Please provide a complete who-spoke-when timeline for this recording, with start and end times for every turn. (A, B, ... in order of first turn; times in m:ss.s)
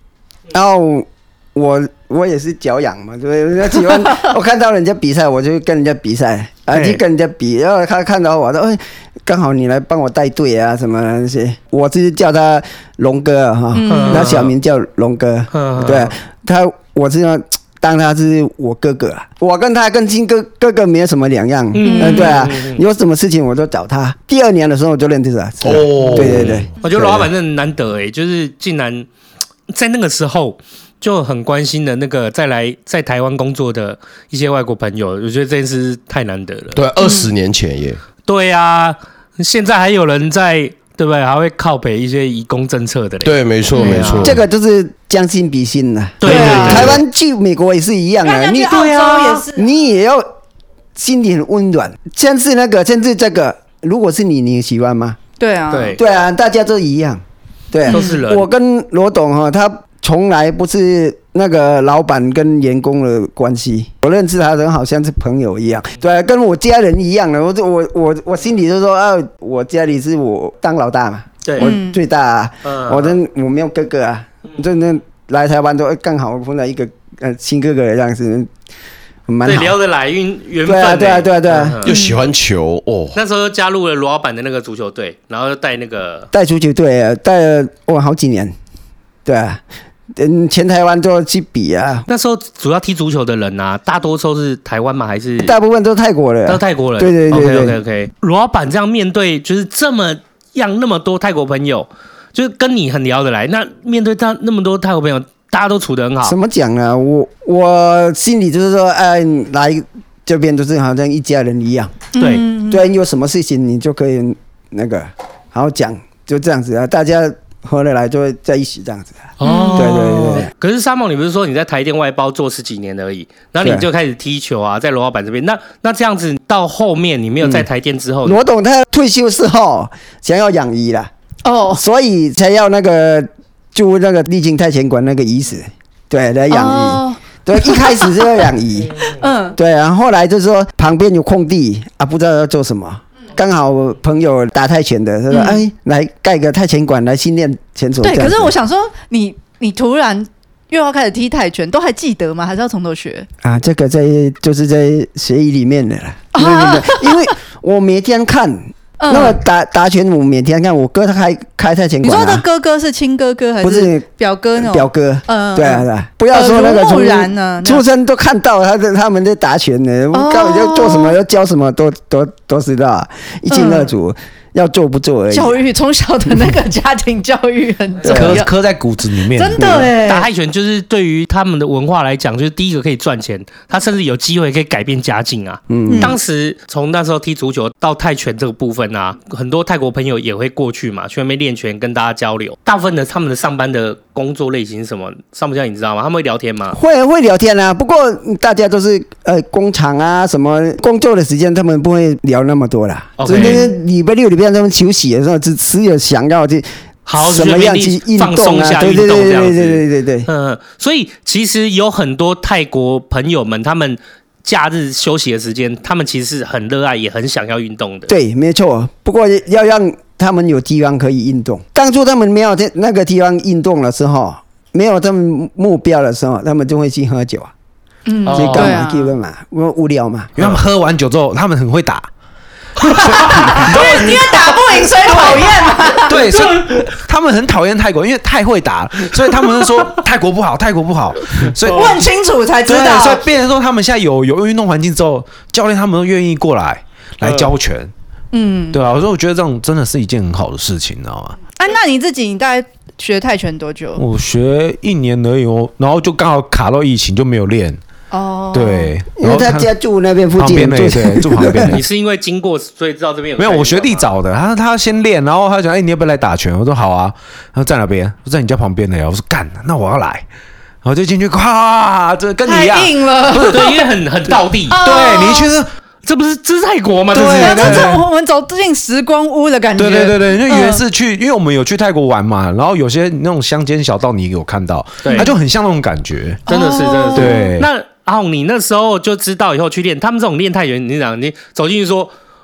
0:00.5-0:27.3 A
0:06.7-0:07.0 B
0:13.7-0:14.3 C
0:13.9-0:14.5 B
0:15.5-0:16.1 B
0:21.7-0:22.8 B
0:21.8-0:22.4 C
0:25.6-0:26.7 D
0:26.0-0:29.1 B
0:29.7-0:36.8 B
0:36.7-0:38.0 D
0:37.0-0:37.3 C
0:38.2-0:44.4 B
0:43.2-0:44.4 D
0:43.7-0:44.2 C
0:44.2-0:48.9 A
0:46.2-0:47.0 B
0:46.2-0:46.9 C
0:46.2-0:47.0 D
0:48.2-0:49.6 C
0:48.7-0:49.4 B
0:49.5-0:50.2 A
0:50.9-0:55.2 A
0:55.4-0:56.0 C
0:55.7-0:56.0 B
0:56.0-1:18.5 A
0:57.9-0:58.2 C
0:57.9-0:58.5 B
1:11.4-1:11.7 B
1:11.6-1:12.0 C
1:12.6-1:13.2 B
1:19.3-1:19.8 A
1:19.4-1:21.9 B
1:20.6-1:21.8 A
1:21.8-1:23.2 D
1:21.8-1:22.2 C
1:23.1-1:26.3 B
1:26.3-1:28.5 A
1:29.2-1:29.6 A
1:30.1-1:32.1 A
1:32.1-1:35.5 B
1:35.4-1:37.8 A
1:36.5-1:46.4 B
1:46.2-1:52.1 A
1:52.1-1:52.8 C
1:52.1-1:52.4 B
1:52.7-2:00.5 A
1:59.4-2:08.4 B
1:59.4-2:00.1 C
2:03.6-2:03.9 A
2:07.4-2:07.7 A
2:08.2-2:11.1 A
2:11.4-2:11.8 C
2:11.7-2:19.0 A
2:16.5-2:18.4 C
2:19.2-2:19.6 C
2:19.5-2:28.5 A
2:25.3-2:25.6 C
2:28.0-2:33.3 C
2:33.4-2:42.4 A
2:36.3-2:37.3 C
2:39.0-2:39.4 C
2:42.0-2:47.8 C
2:43.6-2:44.0 A
2:44.6-2:55.6 A
2:50.1-2:51.2 C
2:53.5-2:53.9 C
2:55.3-3:00.2 C
2:58.0-2:59.9 E
2:58.0-2:58.4 A
2:59.6-2:59.9 A
3:00.0-3:16.8 B
3:05.7-3:06.1 A
3:05.9-3:06.2 C
3:16.7-3:30.3 A
3:23.2-3:23.6 B
3:23.3-3:23.7 C
3:27.0-3:38.1 B
3:38.1-3:47.5 A
3:48.0-3:49.1 C
3:48.2-3:48.8 B
3:48.3-3:50.3 A
3:50.4-3:52.1 E
3:52.9-3:54.3 B
3:52.9-3:54.2 E
3:52.9-3:56.2 C
3:55.1-3:55.5 B
3:56.0-4:02.1 E
3:56.1-3:56.9 B
4:01.6-4:01.9 B
4:01.7-4:03.2 C
4:02.6-4:07.9 E
4:07.2-4:07.5 B
4:08.3-4:08.8 C
4:08.7-4:11.4 E
4:11.6-4:14.0 C
4:14.0-4:17.8 E
4:18.1-4:18.9 C
4:18.5-4:19.7 E
4:19.2-4:21.7 A
4:20.4-4:21.8 E
4:21.6-4:24.1 B
4:23.4-4:30.2 E
4:30.8-4:33.6 E
4:32.4-4:33.8 C
4:33.4-4:34.8 B
4:34.7-4:35.5 C
4:34.7-4:35.7 E
4:36.0-4:38.0 B
4:37.1-4:38.0 E
4:37.1-4:40.8 C
4:39.8-4:46.4 E
4:45.0-4:45.3 B
4:46.4-4:52.1 B
4:46.5-4:47.5 C
4:47.1-4:47.7 E